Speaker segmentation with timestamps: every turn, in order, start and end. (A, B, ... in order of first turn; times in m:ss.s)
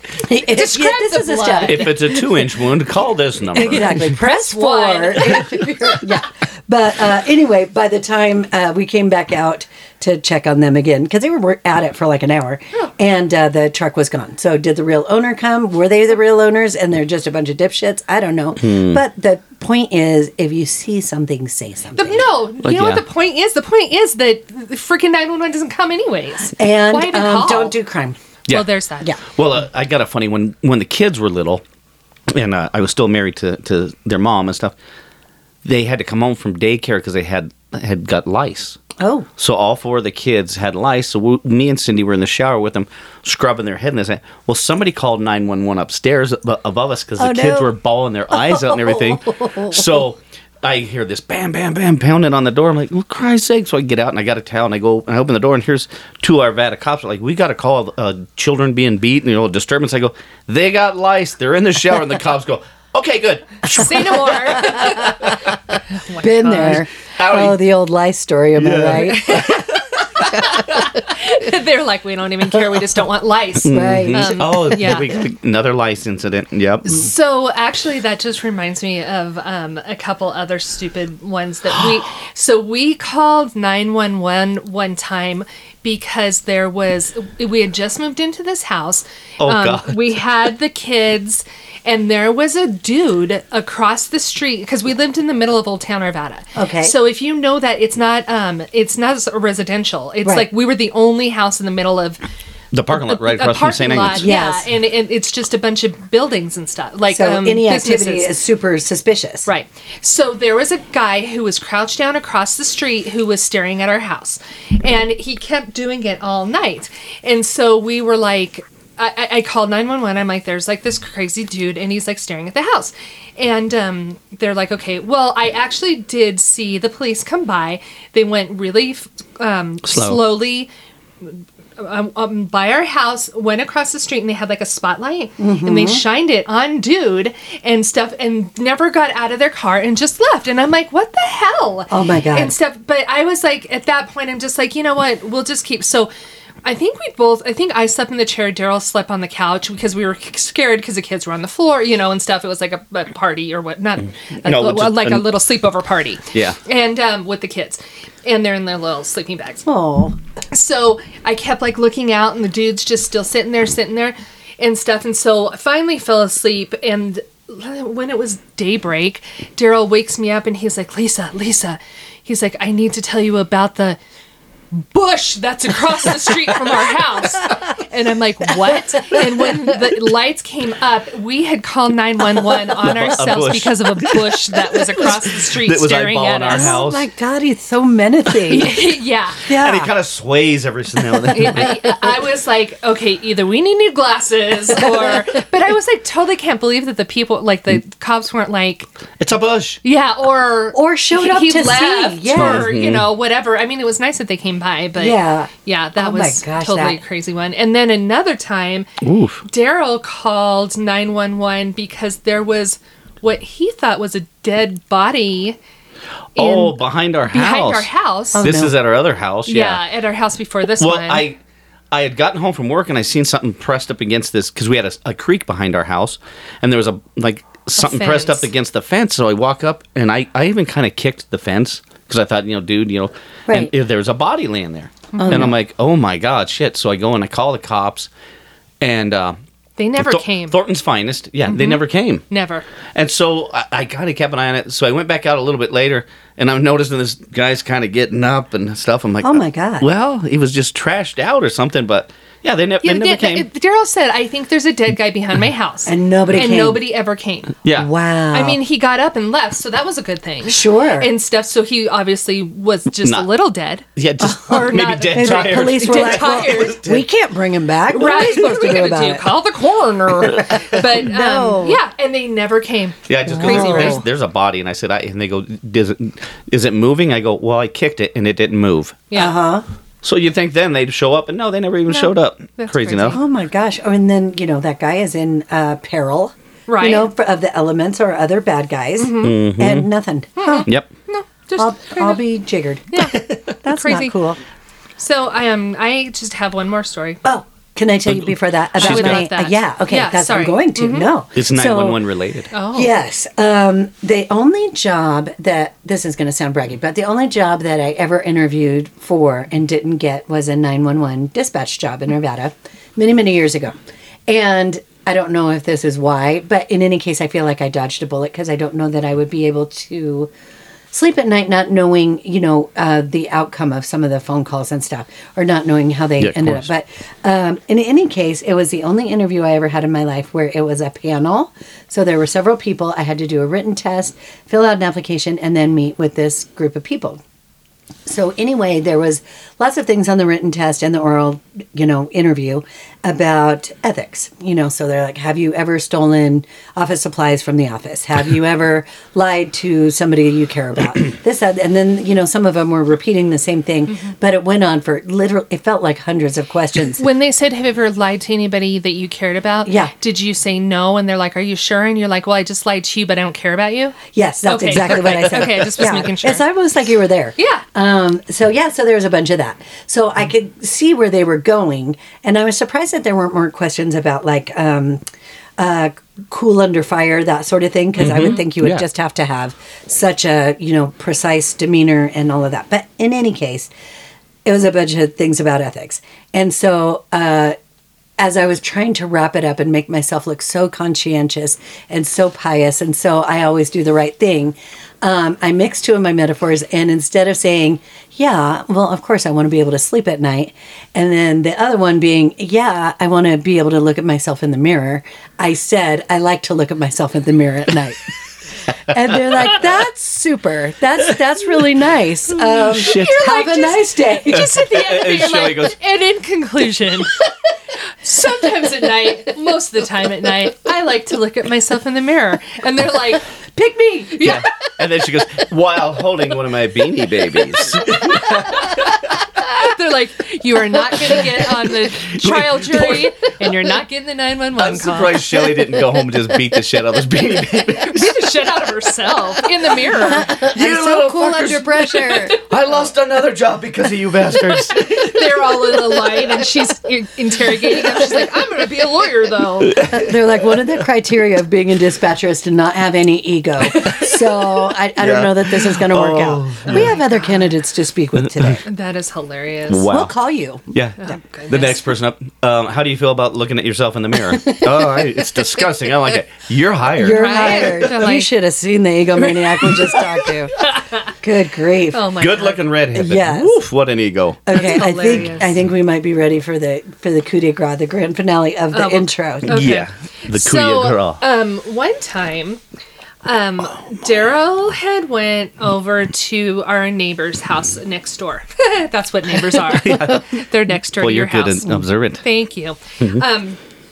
0:00.1-0:02.0 A
0:00.5-0:02.1 B
0:01.6-0:04.0 C
0:03.5-0:22.2 A
0:04.0-0:06.0 B
0:18.6-0:19.0 C
0:22.0-0:27.8 B
0:22.6-0:23.0 C
0:26.6-0:28.2 A
0:28.5-0:29.2 B
0:29.3-0:31.6 C
0:32.3-0:34.7 C
0:35.6-0:38.8 C
0:39.0-0:39.3 A
0:39.4-1:05.0 C
0:47.2-0:47.7 A
0:48.3-0:50.0 A
1:03.7-1:05.4 B
1:04.8-1:05.1 A
1:05.9-1:06.8 B
1:06.2-1:09.6 A
1:07.2-1:07.6 C
1:08.6-1:10.7 C
1:09.1-1:09.7 B
1:10.3-1:15.0 B
1:13.6-1:17.0 C
1:13.7-1:14.7 A
1:16.8-1:42.2 B
1:29.4-1:30.1 C
1:36.5-1:36.9 A
1:40.2-1:40.5 A
1:42.7-1:44.3 C
1:42.9-1:48.3 B
1:44.1-1:44.7 A
1:47.1-1:49.5 A
1:49.4-2:10.7 B
2:09.8-2:10.2 C
2:11.2-2:26.1 B
2:15.4-2:16.0 A
2:21.9-2:22.6 A
2:26.6-2:39.6 B
2:34.4-2:35.3 C
2:36.3-2:36.6 C
2:39.6-2:40.2 A
2:40.5-2:54.0 B
2:54.7-3:06.8 B
2:59.0-2:59.6 A
3:02.8-3:03.9 C
3:05.6-3:07.1 C
3:06.5-3:08.8 A
3:08.5-3:09.4 B
3:09.4-3:09.9 A
3:09.5-3:11.7 C
3:11.3-3:18.9 B
3:14.7-3:15.2 A
3:19.2-3:19.8 C
3:19.8-3:28.9 B
3:20.7-3:22.7 A
3:22.3-3:23.1 C
3:25.0-3:27.0 A
3:29.0-3:29.4 C
3:29.5-3:35.6 B
3:36.4-3:38.4 B
3:36.4-3:39.8 C
3:38.3-3:38.7 A
3:39.4-3:41.2 B
3:40.8-3:41.4 C
3:41.9-3:58.1 C
3:47.8-3:48.5 B
3:53.5-3:53.7 A
3:55.1-3:55.5 B
3:55.2-3:55.5 A
3:58.8-3:59.4 C
3:59.8-4:00.6 B
4:00.0-4:02.2 C
4:01.4-4:02.6 B
4:02.9-4:13.5 C
4:09.2-4:09.9 A
4:12.8-4:17.5 B
4:15.8-4:16.8 A
4:17.6-4:17.9 C
4:17.7-4:18.6 A
4:18.3-4:23.8 B
4:20.4-4:21.1 A
4:23.0-4:23.3 C
4:24.0-4:27.0 C
4:24.2-4:29.3 A
4:24.4-4:26.8 B
4:27.9-4:34.0 B
4:30.2-4:31.8 A
4:33.1-4:39.1 C
4:33.3-4:34.0 A
4:39.1-4:39.4 B
4:39.1-4:39.6 A
4:40.0-4:43.2 C
4:41.9-4:43.2 B
4:43.1-4:50.7 A
4:46.7-4:47.1 B
4:49.0-4:49.4 B
4:49.2-4:49.9 C
4:50.4-4:52.2 B
4:51.6-4:54.4 A
4:52.9-4:54.1 B
4:55.0-4:57.2 B
4:57.2-5:02.0 A
4:58.0-4:59.2 C
4:58.8-5:01.1 B
5:01.4-5:02.5 C
5:02.5-5:02.9 B
5:02.7-5:13.7 A
5:14.3-5:20.3 A
5:20.9-5:37.2 A
5:26.2-5:26.7 C
5:38.0-5:57.0 A
5:57.0-6:06.4 B
5:59.6-5:59.9 A
6:04.1-6:15.0 A
6:07.4-6:07.6 B
6:15.6-6:23.7 A
6:18.0-6:18.8 C
6:24.4-6:27.6 A
6:28.2-6:48.0 A
6:48.9-6:54.5 A
6:52.4-6:57.1 B
6:52.7-6:53.2 C
6:54.3-6:55.8 C
6:58.0-7:03.2 B
7:03.5-7:04.4 A
7:04.2-7:09.0 C
7:09.4-7:15.2 B
7:12.0-7:13.3 C
7:14.6-7:18.3 C
7:17.9-7:20.4 B
7:20.0-7:22.4 A
7:20.0-7:25.6 C
7:24.9-7:29.8 B
7:29.7-7:30.0 C
7:29.8-7:38.6 A
7:35.0-7:36.9 C
7:36.6-7:37.5 B
7:38.6-7:39.9 B
7:39.7-7:40.1 C
7:39.9-7:40.6 A
7:40.7-7:47.9 C
7:41.0-7:41.8 B
7:44.3-7:45.0 A
7:47.0-7:50.5 A
7:47.0-7:48.3 B
7:50.6-7:51.0 B
7:51.2-7:52.1 A
7:51.9-7:52.6 B
7:52.2-7:54.4 C
7:52.9-7:53.6 A
7:54.4-7:59.6 A
7:54.5-7:55.5 B
7:58.7-8:02.6 B
7:59.5-8:01.2 C
8:03.2-8:13.6 B
8:09.7-8:10.4 C
8:11.0-8:12.2 C